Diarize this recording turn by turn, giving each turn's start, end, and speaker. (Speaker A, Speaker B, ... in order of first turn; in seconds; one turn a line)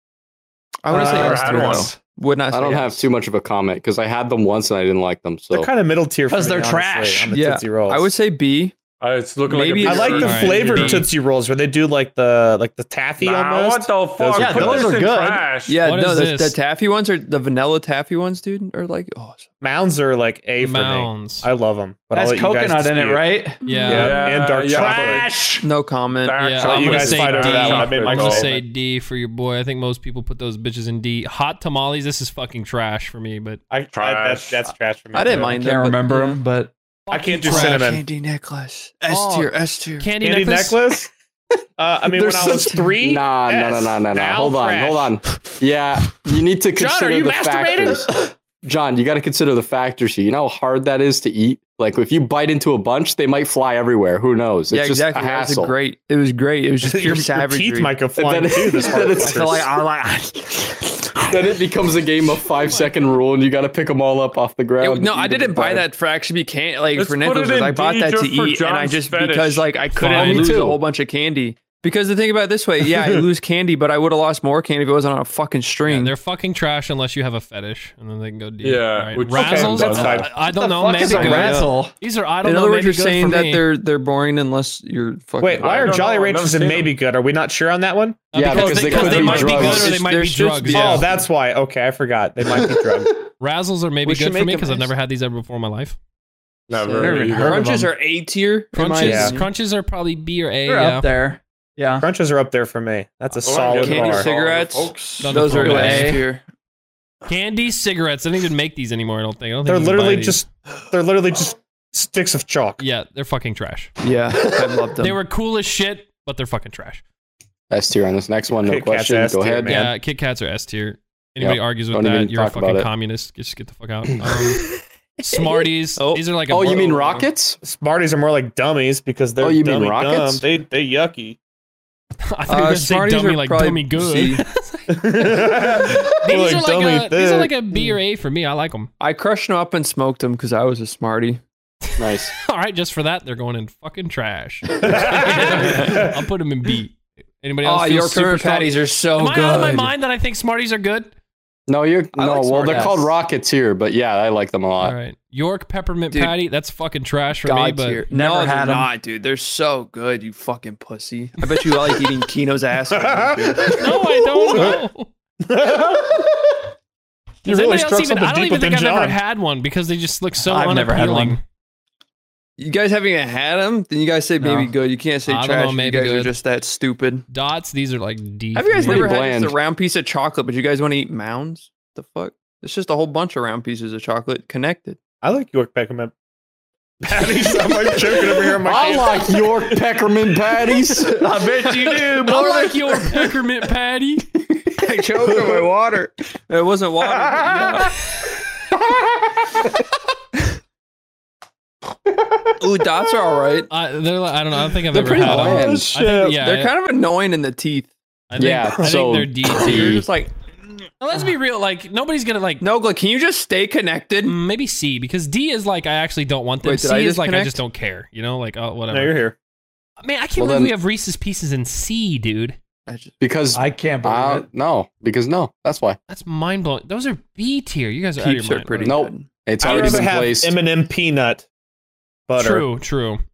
Speaker A: 0.8-3.1
Speaker B: 0.9-2.0
Speaker C: 0.9-2.0
Speaker D: 2.5-5.7
Speaker E: 5.5-8.1
Speaker B: 6.3-7.3
Speaker A: 7.3-8.8
Speaker C: 9.0-11.1
Speaker A: 9.5-11.1
Speaker E: 9.8-15.4
Speaker F: 10.2-11.1
Speaker C: 13.2-15.8
Speaker B: 14.3-15.3
Speaker A: 15.7-19.5
Speaker F: 15.8-16.6
Speaker E: 19.6-23.3
Speaker F: 20.6-21.5
Speaker B: 22.1-25.7
Speaker F: 23.6-24.3
Speaker C: 23.9-25.2
Speaker E: 24.0-25.3
Speaker A: 25.6-26.6
Speaker C: 26.2-28.5
Speaker F: 26.4-33.6
Speaker E: 26.6-28.5
Speaker E: 33.7-35.6
Speaker C: 33.9-34.6
Speaker A: 35.1-36.4
Speaker B: 35.5-36.7
Speaker F: 37.1-37.9
Speaker E: 37.1-38.0
Speaker A: 37.5-40.1
Speaker F: 39.1-40.8
Speaker E: 40.2-41.1
Speaker E: 41.8-45.1
Speaker B: 42.1-42.9
Speaker D: 43.0-48.1
Speaker E: 46.8-48.3
Speaker D: 48.6-55.8
Speaker A: 54.7-58.0
Speaker E: 56.8-59.7
Speaker D: 58.2-59.7
Speaker A: 59.0-60.9
Speaker D: 61.3-65.9
Speaker A: 64.8-76.2
Speaker C: 67.0-69.7
Speaker F: 69.9-70.6
Speaker D: 70.1-70.8
Speaker E: 72.8-73.2
Speaker F: 75.9-83.7
Speaker C: 78.6-80.3
Speaker E: 79.3-80.3
Speaker B: 80.4-82.0
Speaker A: 81.2-81.7
Speaker A: 82.4-86.0
Speaker E: 85.4-88.3
Speaker C: 85.6-86.9
Speaker F: 88.3-91.1
Speaker D: 88.3-90.0
Speaker A: 88.5-91.3
Speaker E: 88.8-89.9
Speaker E: 90.7-93.2
Speaker F: 93.4-96.0
Speaker A: 94.0-94.9
Speaker C: 96.7-97.7
Speaker A: 96.8-99.5
Speaker B: 97.0-97.9
Speaker F: 98.7-101.1
Speaker E: 99.0-99.4
Speaker B: 100.7-102.1
Speaker E: 102.0-104.3
Speaker C: 103.4-105.7
Speaker A: 103.7-106.4
Speaker F: 105.2-106.2
Speaker B: 105.5-106.3
Speaker F: 107.3-110.4
Speaker E: 109.7-112.8
Speaker F: 112.8-113.9
Speaker A: 114.0-115.2
Speaker F: 115.0-117.0
Speaker D: 117.7-119.8
Speaker E: 118.6-119.9
Speaker F: 119.7-124.7
Speaker D: 121.4-122.9
Speaker F: 125.2-127.2
Speaker A: 126.0-127.2
Speaker D: 126.5-127.6
Speaker E: 127.6-131.4
Speaker D: 129.4-130.4
Speaker F: 132.3-138.9
Speaker A: 132.5-134.4
Speaker E: 134.9-137.5
Speaker A: 139.0-141.4
Speaker D: 142.0-142.3
Speaker F: 142.1-151.1
Speaker E: 144.8-146.2
Speaker A: 147.6-149.9
Speaker D: 151.7-155.0
Speaker A: 152.2-153.1
Speaker F: 154.8-158.0
Speaker A: 157.4-163.9
Speaker B: 158.1-158.9
Speaker E: 162.9-164.8
Speaker F: 163.8-165.1
Speaker E: 165.5-166.6
Speaker E: 167.4-169.2
Speaker F: 167.4-171.4
Speaker B: 170.4-171.4
Speaker A: 172.6-177.3
Speaker B: 174.4-174.7
Speaker F: 175.3-176.3
Speaker F: 177.3-179.1
Speaker A: 178.5-185.0
Speaker D: 178.8-179.6
Speaker E: 185.2-186.1
Speaker E: 187.0-189.8
Speaker D: 188.6-191.2
Speaker B: 191.1-192.8
Speaker A: 191.8-192.3
Speaker F: 192.1-194.2
Speaker A: 194.8-197.9
Speaker E: 197.1-197.8
Speaker E: 202.1-202.4
Speaker A: 202.6-203.7
Speaker F: 203.7-206.7
Speaker D: 204.9-205.9
Speaker E: 205.2-206.4
Speaker A: 206.2-207.9
Speaker F: 208.3-210.0
Speaker D: 208.4-210.1
Speaker A: 209.5-210.3
Speaker F: 211.0-212.6
Speaker A: 212.6-214.4
Speaker F: 214.2-219.2
Speaker A: 216.6-217.6
Speaker E: 218.9-219.4
Speaker F: 220.0-222.6
Speaker D: 220.4-220.7
Speaker A: 222.9-223.2
Speaker D: 223.2-226.0
Speaker B: 223.5-224.5
Speaker F: 226.1-228.9
Speaker A: 228.2-230.0
Speaker D: 228.8-230.6
Speaker E: 229.6-231.5
Speaker E: 232.3-232.7
Speaker F: 232.4-233.2